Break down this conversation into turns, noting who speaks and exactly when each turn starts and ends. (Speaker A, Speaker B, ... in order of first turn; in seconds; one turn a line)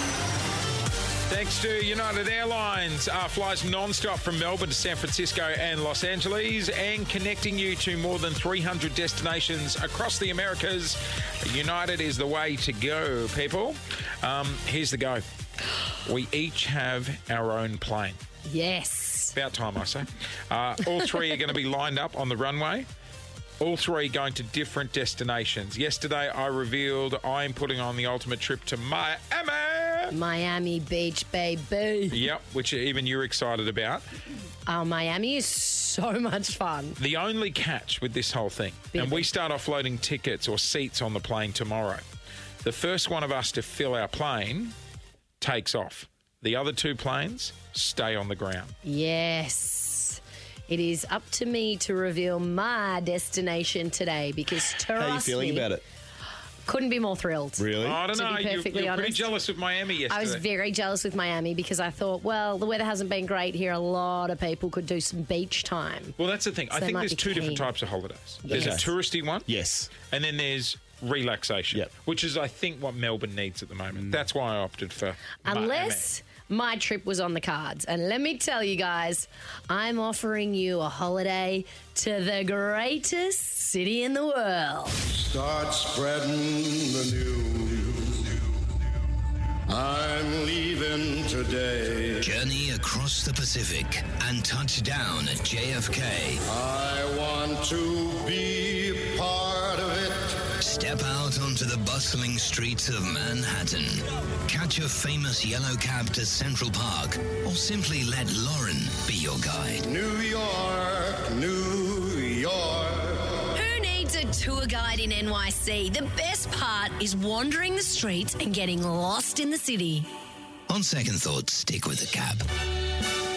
Speaker A: 1.3-15.2
Speaker A: 16.1-18.2
Speaker B: 18.5-19.4
Speaker A: 19.3-22.9
Speaker A: 23.6-30.1
Speaker B: 30.1-32.2
Speaker A: 32.1-34.0
Speaker B: 34.7-37.0
Speaker A: 37.0-42.0
Speaker B: 38.9-39.3
Speaker A: 42.6-44.7
Speaker A: 45.4-48.7
Speaker B: 48.9-55.7
Speaker C: 54.9-55.8
Speaker B: 56.6-59.3
Speaker C: 57.6-58.0
Speaker A: 57.8-60.4
Speaker B: 60.1-66.2
Speaker A: 66.2-69.5
Speaker B: 66.7-67.7
Speaker B: 68.4-68.9
Speaker C: 68.5-68.9
Speaker C: 69.5-69.9
Speaker A: 70.1-76.1
Speaker B: 75.5-85.0
Speaker D: 85.1-88.2
Speaker D: 89.7-92.3
Speaker E: 92.2-96.4
Speaker D: 96.5-100.5
Speaker E: 100.6-109.9
Speaker D: 109.8-113.3
Speaker B: 113.5-120.1
Speaker E: 120.7-122.5